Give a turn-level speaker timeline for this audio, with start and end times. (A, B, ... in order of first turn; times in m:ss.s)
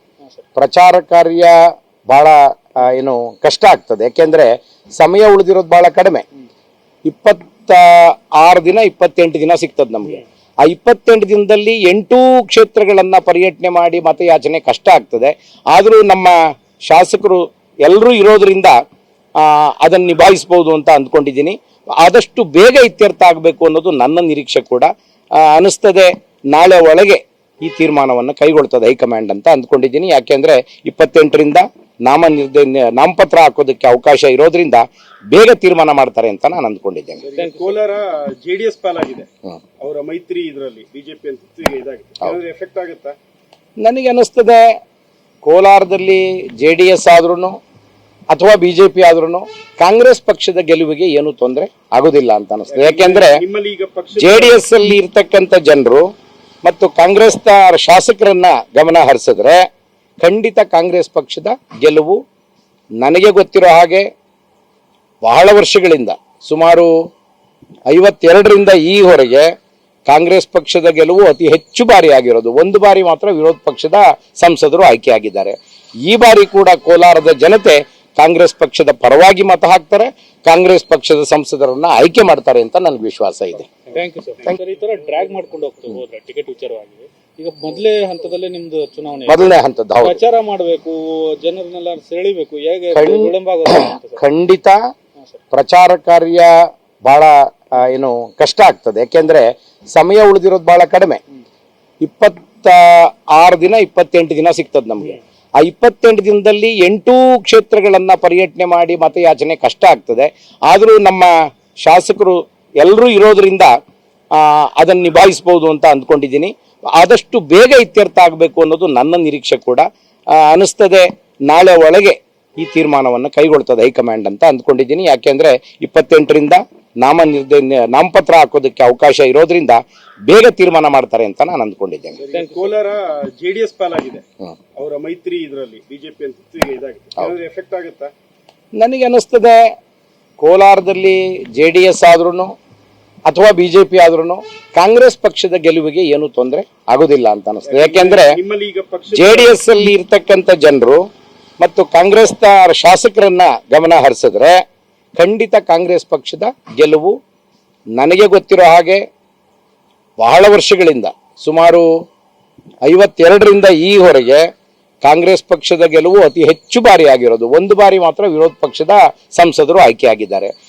0:00.6-0:01.6 A
0:02.1-0:06.2 A
0:07.0-0:18.8 A
0:19.4-0:37.2 A
0:37.2-0:39.3 B
0:37.4-0:37.8 C
0:39.8-0:43.2 B
0:43.8-0:44.8 A
0:45.4-0:47.6 A
0:48.3-0:53.4 A
0:52.7-0:54.6 B
0:54.2-0:56.0 A
0:56.6-0:59.6 A
1:00.2-1:02.2 A
1:03.0-1:04.1 A
1:05.2-1:06.9 A
1:07.9-1:09.5 A
1:10.1-1:23.7 A
1:23.9-1:29.5 C
1:29.3-1:30.2 A
1:30.0-1:34.2 C
1:32.9-1:34.8 A
1:35.5-1:36.5 A
1:37.0-1:41.2 A
1:42.0-1:51.3 A
1:51.8-1:53.7 A
1:54.4-2:12.2 A
2:12.2-2:14.2 B
2:12.3-2:12.7 C
2:14.8-2:18.1 B
2:18.8-2:19.6 A
2:20.4-2:22.5 A
2:23.2-2:28.4 A
2:27.6-2:29.6 B
2:29.1-2:31.0 A
2:31.6-2:34.6 A
2:35.2-2:37.1 A
2:38.0-2:39.0 A
2:40.2-2:41.9 A
2:42.8-2:44.4 A
2:45.0-2:50.5 A